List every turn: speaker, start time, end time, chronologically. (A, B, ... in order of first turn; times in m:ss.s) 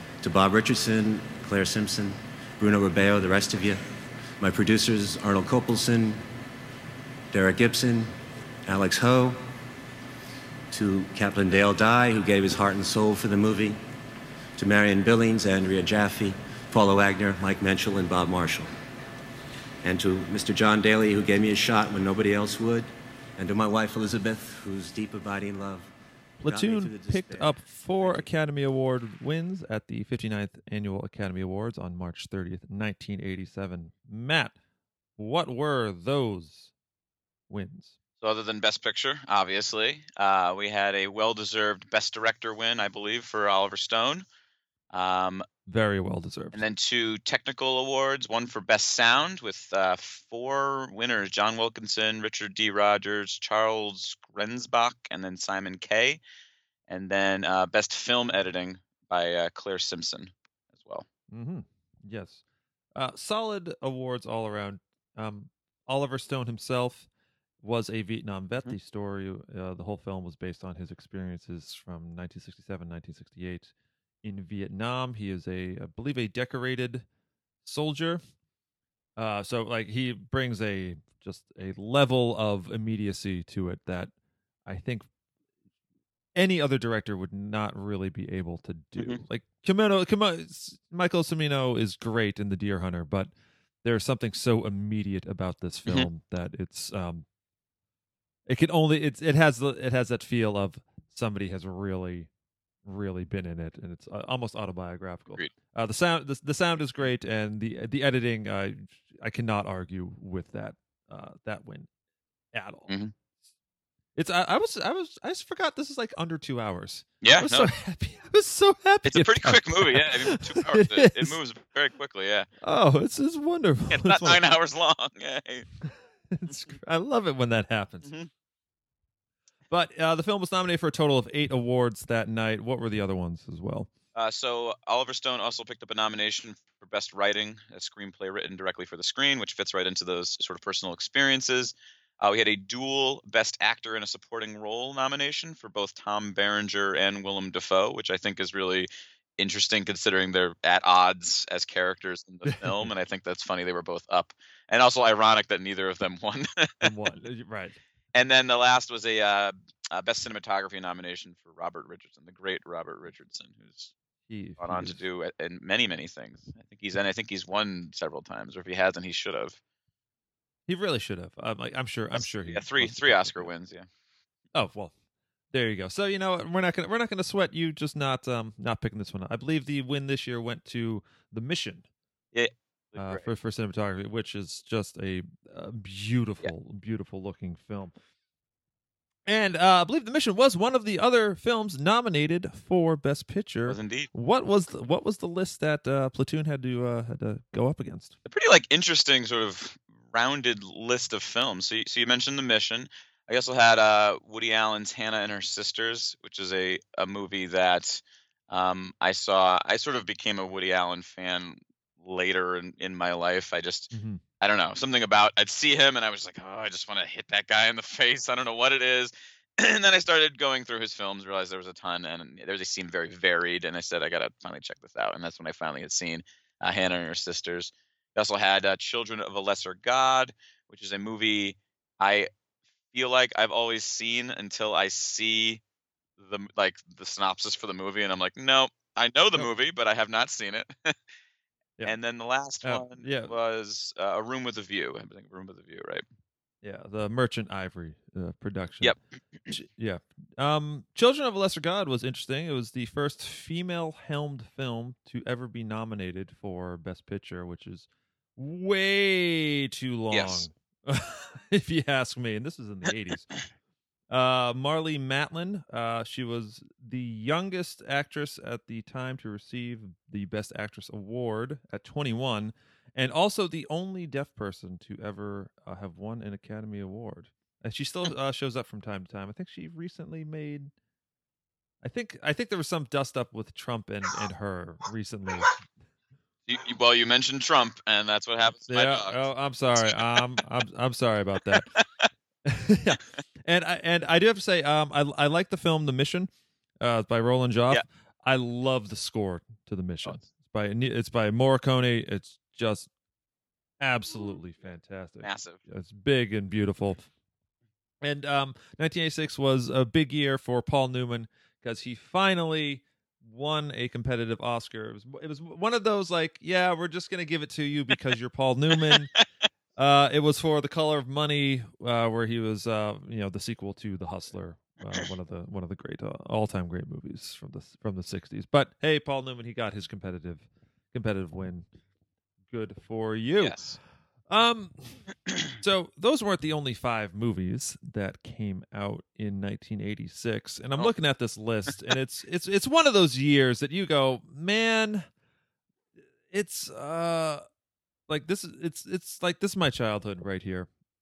0:00.2-0:06.2 A
0:07.3-0:08.1 A
0:08.6-0:09.4 A
0:10.7-0:13.8 A
0:14.6-0:18.7 A
0:19.8-0:25.9 A
0:26.4-0:34.6 B
0:26.4-0:28.3 A
0:35.2-0:36.7 B
0:37.5-0:37.9 B
0:38.2-0:44.2 C
0:44.9-0:45.4 C
0:45.7-0:46.6 B
0:46.5-0:56.2 C
0:56.9-1:01.0 C
1:01.3-1:02.4 B
1:02.9-1:07.1 B
1:07.6-1:17.0 B
1:17.6-1:18.2 B
1:19.2-1:24.1 B
1:24.6-1:25.1 B
1:26.3-1:33.3 B
1:33.8-1:37.2 B
1:38.5-1:42.3 B
1:42.8-1:51.9 B
1:52.5-1:52.9 B
1:52.9-1:53.1 C
1:54.2-2:01.4 B
1:57.2-1:57.7 C
1:59.0-2:02.5 C
2:02.6-2:04.4 B
2:03.9-2:05.7 C
2:06.3-2:08.1 B
2:06.5-2:06.7 C
2:08.0-2:08.3 C
2:09.7-2:13.9 B
2:14.1-2:36.9 C
2:32.4-2:32.8 B
2:36.8-2:37.8 B
2:38.1-2:43.9 C
2:44.3-2:45.0 B
2:44.6-2:49.6 C
2:50.7-2:53.5 B
2:52.1-2:53.9 C
2:54.5-2:54.9 B
2:55.5-3:01.8 B
3:02.3-3:03.3 C
3:03.0-3:08.0 B
3:09.2-3:18.1 B
3:13.6-3:14.1 C
3:18.2-3:52.3 C
3:33.9-3:34.2 B
3:52.9-3:55.6 C
3:56.2-4:00.9 C
4:01.8-4:06.0 C
4:02.6-4:03.3 B
4:06.6-4:09.0 B
4:08.8-4:09.5 C
4:09.5-4:23.4 B
4:20.1-4:20.5 C
4:24.1-4:40.7 B
4:41.8-4:45.7 B
4:46.5-4:50.4 C
4:48.7-4:51.7 B
4:51.4-4:52.1 C
4:52.4-4:56.3 B
4:56.8-5:02.9 B
5:03.8-5:07.0 B
5:05.2-5:05.6 C
5:08.0-5:19.1 B
5:19.8-5:31.7 B
5:32.5-5:33.6 B
5:33.4-5:33.8 C
5:34.3-5:35.0 B
5:35.6-5:45.1 B
5:46.3-5:47.4 B
5:48.1-5:50.7 B